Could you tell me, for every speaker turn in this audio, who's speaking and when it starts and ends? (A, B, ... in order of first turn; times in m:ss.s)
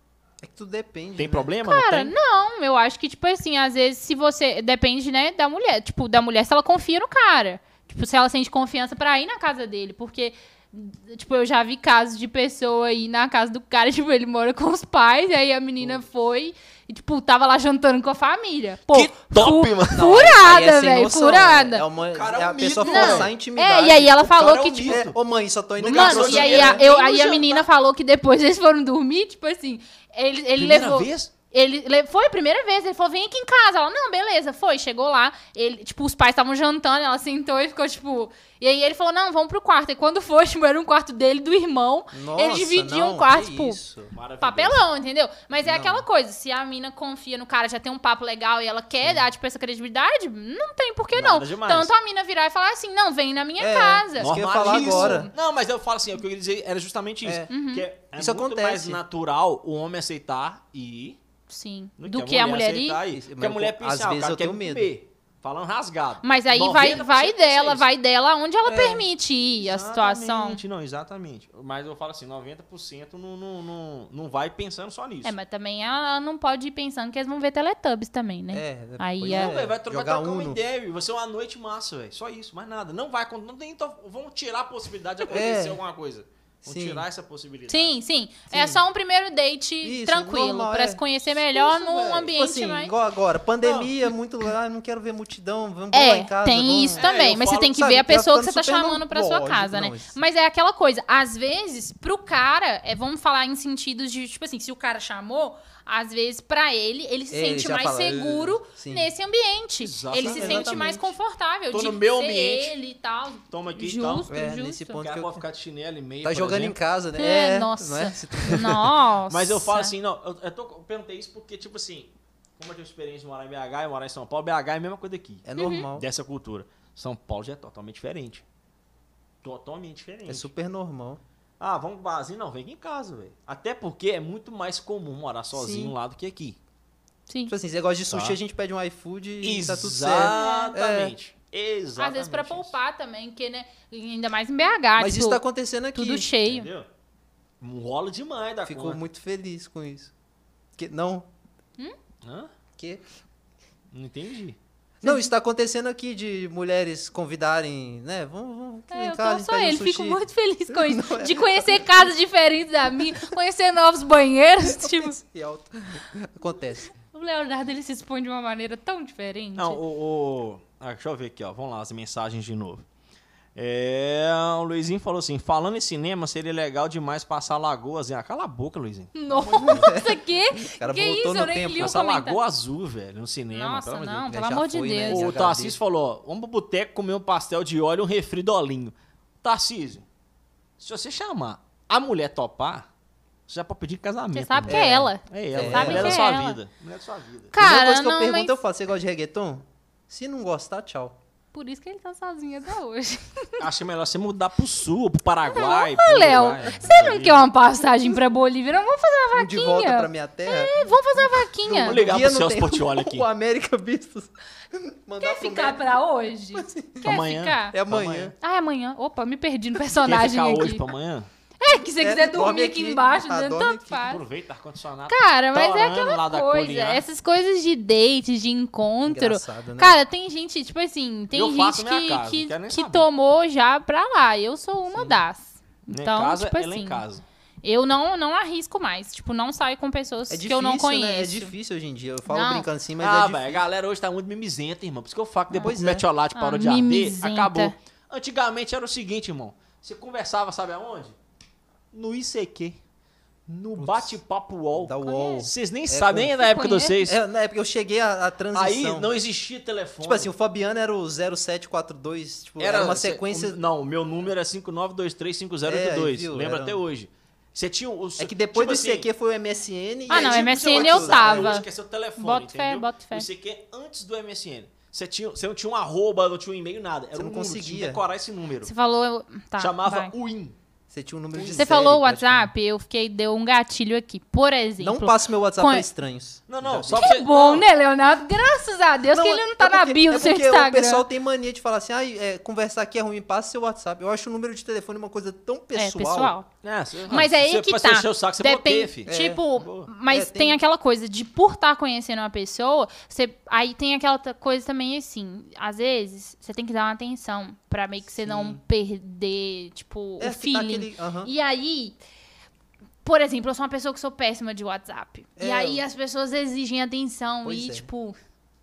0:00.4-0:01.5 A
0:01.2-0:02.1 B
0:01.6-0:21.8 C
0:18.9-0:20.3 B
0:19.9-0:24.3 A
0:22.1-0:23.3 B
0:22.8-0:25.0 C
0:23.9-0:25.2 B
0:24.8-0:26.9 A
0:25.8-0:27.7 B
0:25.9-0:43.8 C
0:30.6-0:31.3 B
0:42.1-0:44.1 A
0:44.1-0:44.8 B
0:44.4-0:55.3 C
0:45.6-0:46.0 A
0:51.1-0:51.9 B
0:53.6-0:55.3 A
0:54.2-1:01.2 B
0:57.5-0:57.8 C
0:58.2-0:59.0 A
1:01.5-1:03.0 C
1:02.0-1:07.9 B
1:03.1-1:04.9 A
1:06.2-1:10.6 C
1:08.6-1:09.0 A
1:09.6-1:15.4 B
1:15.2-1:19.5 C
1:18.5-1:20.6 A
1:19.2-1:28.0 B
1:25.2-1:25.8 A
1:26.6-1:27.1 A
1:27.7-1:32.9 C
1:28.5-1:28.8 A
1:29.8-1:40.2 A
1:33.6-1:34.0 B
1:35.9-1:55.0 C
1:37.0-1:37.8 B
1:47.3-1:49.1 A
1:49.8-1:51.0 B
1:50.2-1:51.1 A
1:51.7-1:52.7 B
1:53.5-1:54.3 B
1:54.3-1:55.4 A
1:55.0-1:56.8 B
1:56.2-1:58.8 A
1:57.2-1:59.9 C
1:59.3-2:08.4 B
2:05.4-2:06.1 A
2:05.6-2:05.9 C
2:09.4-2:10.5 B
2:10.3-2:11.2 A
2:11.6-2:16.6 B
2:15.5-2:15.9 A
2:17.3-2:17.5 C
2:17.5-2:21.1 A
2:18.1-2:18.4 B
2:19.4-2:22.8 B
2:20.2-2:20.7 C
2:22.0-2:25.4 C
2:25.0-2:26.3 A
2:26.0-2:26.7 C
2:26.4-2:26.9 B
2:27.6-2:29.0 B
2:28.6-2:30.1 A
2:30.8-2:31.3 A
2:32.2-2:32.5 B
2:32.8-2:33.0 A
2:33.9-2:34.6 B
2:35.0-2:42.1 A
2:38.9-2:45.2 C
2:44.6-2:46.9 A
2:47.1-2:49.8 C
2:49.6-2:52.8 B
2:53.6-2:59.9 B
2:59.2-3:02.4 C
2:59.4-3:02.0 A
3:01.8-3:04.2 B
3:03.5-3:05.3 C
3:04.3-3:05.8 A
3:05.1-3:10.0 B
3:10.8-3:12.9 B
3:13.5-3:17.5 B
3:14.3-3:16.6 C
3:14.7-3:16.2 A
3:17.5-3:18.6 C
3:17.6-3:21.2 A
3:21.5-3:23.6 C
3:23.6-3:27.5 B
3:25.5-3:32.0 C
3:29.3-3:35.8 A
3:31.7-3:33.3 B
3:35.2-3:37.8 C
3:36.6-3:37.2 A
3:37.0-3:38.3 B
3:37.7-3:38.3 A
3:38.4-3:40.9 C
3:40.0-3:41.3 B
3:41.6-3:44.2 C
3:42.0-3:44.0 A
3:44.0-3:47.0 B
3:45.1-3:57.0 C
3:49.0-3:50.0 A
3:51.3-3:53.1 B
3:55.9-3:57.2 B
3:57.6-4:01.5 C
4:00.3-4:03.6 A
4:02.3-4:02.7 C
4:03.0-4:11.2 B
4:05.6-4:06.0 A
4:06.4-4:07.8 C
4:11.9-4:12.8 B
4:13.5-4:17.2 B
4:13.8-4:14.2 A
4:14.8-4:16.3 A
4:15.0-4:15.5 C
4:16.3-4:17.0 C
4:17.0-4:19.1 A
4:18.5-4:20.3 B
4:20.0-4:23.6 A
4:22.6-4:29.1 B
4:25.7-4:26.8 A
4:28.2-4:31.6 A
4:30.1-4:38.7 B
4:30.1-4:31.7 C
4:32.2-4:33.3 C
4:37.1-4:38.0 A
4:38.6-4:40.1 C
4:39.6-4:40.6 B
4:40.9-4:42.5 A
4:41.3-4:41.9 B
4:41.5-4:45.9 C
4:44.8-4:47.1 A
4:46.5-4:47.7 B
4:47.0-4:51.1 C
4:49.1-4:56.3 A
4:55.8-4:56.5 C
4:56.6-4:59.1 B
4:57.1-5:12.0 C
4:59.1-4:59.4 A
4:59.6-4:59.9 B
5:00.1-5:00.6 A
5:08.2-5:08.6 A
5:10.2-5:11.3 A
5:13.0-5:18.2 C
5:15.4-5:15.8 A
5:17.4-5:17.9 A